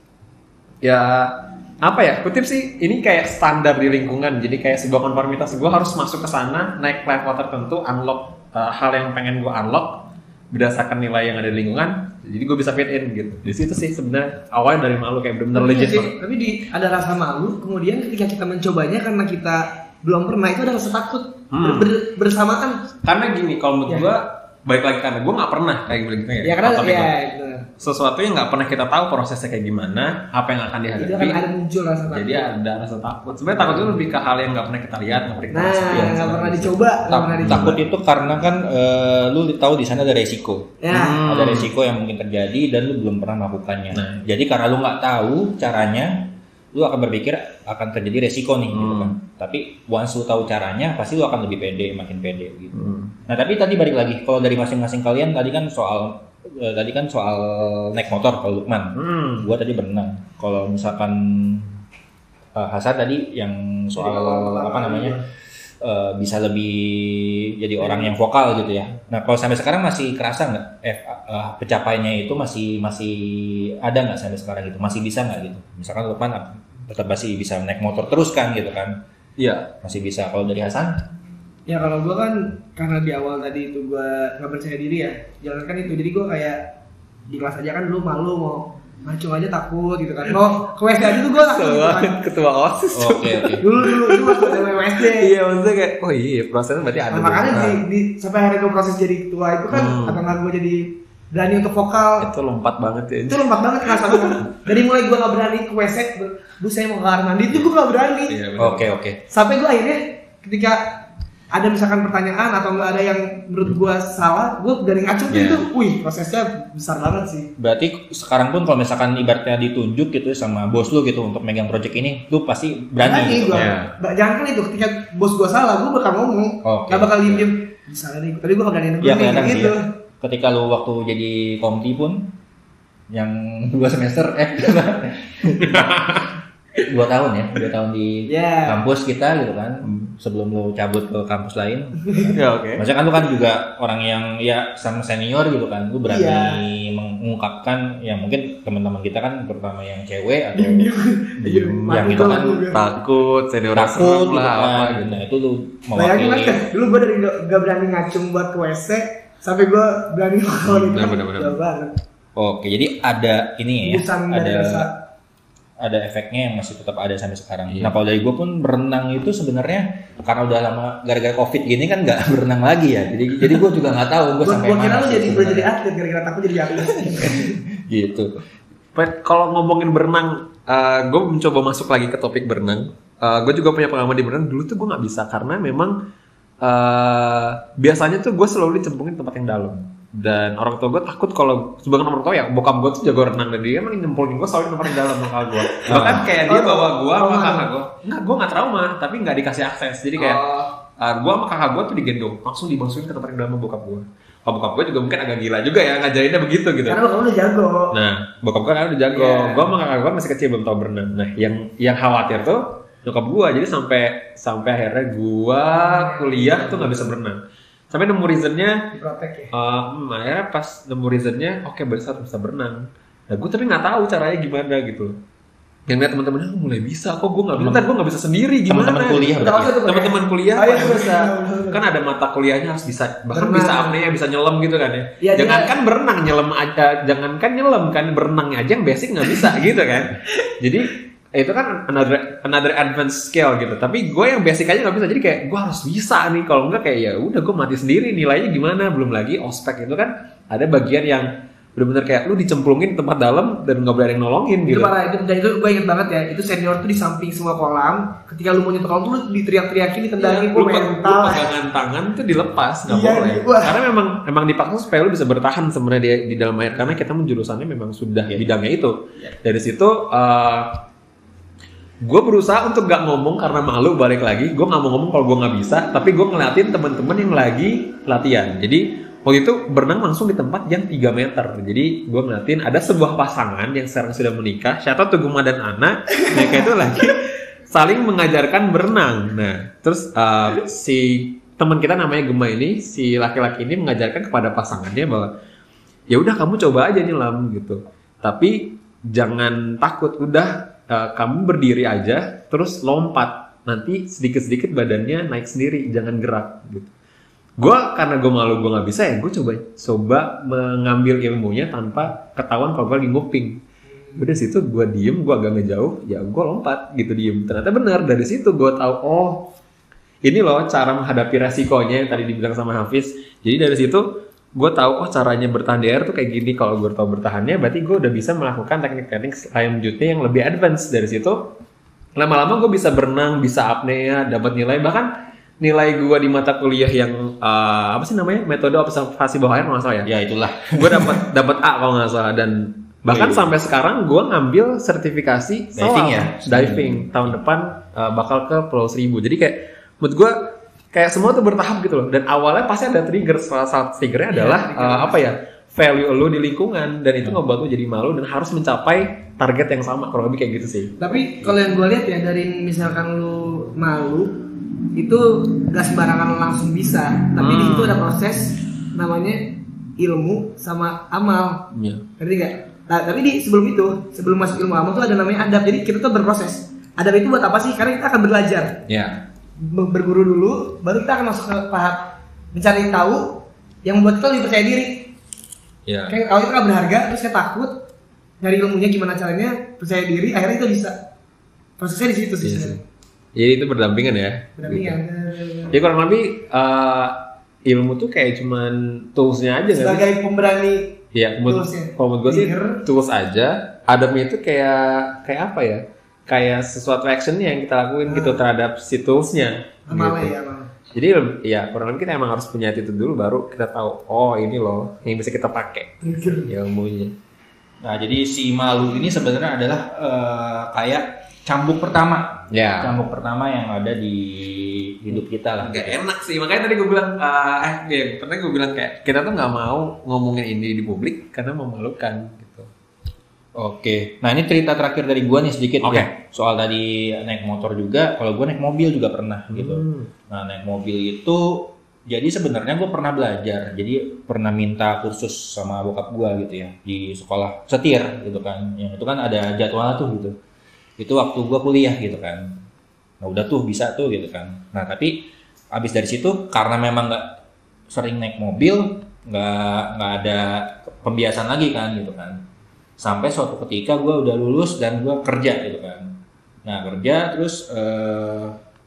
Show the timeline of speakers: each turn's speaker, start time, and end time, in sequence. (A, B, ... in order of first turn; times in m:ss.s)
0:00.8-0:16.1 A
0:15.5-0:22.8 B
0:21.5-0:21.9 A
0:23.0-0:27.1 A
0:26.4-0:27.7 B
0:27.8-0:31.4 A
0:31.0-0:32.5 B
0:32.1-0:36.8 A
0:35.5-0:37.8 B
0:35.9-0:36.2 C
0:37.1-1:01.8 C
0:37.4-0:37.8 A
0:40.8-0:41.2 B
0:40.9-0:41.7 A
0:43.9-0:44.2 A
0:48.7-0:49.2 A
0:52.7-0:53.2 A
0:59.0-0:59.5 A
1:02.6-1:05.2 C
1:04.0-1:05.2 B
1:05.8-1:19.0 C
1:19.4-1:19.7 A
1:19.8-1:21.0 C
1:21.7-1:26.7 B
1:27.3-1:32.2 B
1:31.0-1:37.8 A
1:32.9-1:33.6 C
1:33.6-1:35.3 B
1:37.1-1:42.3 B
1:39.7-1:40.2 A
1:42.2-1:44.5 A
1:43.3-1:48.4 B
1:48.3-1:48.9 A
1:48.6-1:49.2 C
1:49.3-1:57.5 B
1:55.3-1:55.7 A
1:57.6-2:03.8 C
2:03.0-2:09.8 B
2:03.5-2:03.9 A
2:06.6-2:07.5 C
2:09.0-2:12.3 C
2:13.1-2:16.2 C
2:15.7-2:16.3 A
2:16.8-2:32.7 C
2:18.3-2:18.8 B
2:22.3-2:22.8 A
2:26.1-2:26.6 B
2:30.6-2:32.8 B
2:31.6-2:35.2 A
2:33.8-2:36.6 C
2:36.0-2:42.0 B
2:40.7-2:41.6 A
2:42.4-2:44.9 C
2:43.8-2:44.9 B
2:45.8-2:55.7 C
2:47.7-2:47.9 A
2:54.4-2:57.4 B
2:57.2-2:58.3 C
2:59.0-3:06.0 A
3:06.6-3:27.0 A
3:15.7-3:17.7 B
3:15.9-3:16.3 C
3:20.2-3:20.6 B
3:26.9-3:28.0 B
3:27.9-3:37.4 A
3:29.1-3:29.7 B
3:35.7-3:37.1 B
3:37.9-3:38.8 A
3:38.9-3:39.5 B
3:39.5-3:45.2 A
3:45.9-4:14.9 A
3:47.6-3:47.9 C
3:48.7-3:49.8 C
3:49.4-3:51.8 B
3:53.3-3:53.9 B
3:55.2-3:55.7 B
4:14.7-4:21.5 B
4:20.2-4:30.8 A
4:22.9-4:23.8 B
4:28.3-4:28.5 C
4:32.0-4:55.3 A
4:56.1-5:06.9 A
5:07.6-5:13.6 A
5:14.2-5:19.5 A
5:20.2-5:24.0 A
5:24.6-5:31.5 A
5:32.2-5:35.1 A
5:35.6-5:40.1 A
5:40.0-5:41.2 C
5:40.7-5:50.4 A
5:43.1-5:43.5 C
5:45.8-5:47.1 C
5:50.9-6:01.1 A
5:54.3-5:55.3 B
6:01.0-6:04.4 B
6:05.0-6:11.6 B
6:07.4-6:08.1 A
6:11.7-6:12.1 A
6:12.2-6:18.8 B
6:18.9-6:19.2 A
6:19.6-6:25.1 B
6:25.9-6:26.2 A
6:26.1-6:27.8 B
6:28.4-6:31.0 B
6:31.8-6:32.8 B
6:32.4-6:32.8 A
6:33.4-6:35.0 A
6:34.6-6:35.8 B
6:35.7-6:40.1 A
6:39.7-6:42.8 B
6:41.1-6:50.3 A
6:48.1-6:48.4 B
6:49.9-6:50.7 B
6:50.9-6:57.1 A
6:56.0-6:56.5 B
6:57.8-7:06.0 C
7:02.5-7:03.0 A
7:05.6-7:12.7 A
7:13.6-7:30.4 C
7:15.8-7:16.1 A
7:19.5-7:20.1 A
7:31.0-7:32.6 C
7:33.2-7:37.4 C
7:37.9-7:42.4 C
7:43.0-7:48.6 C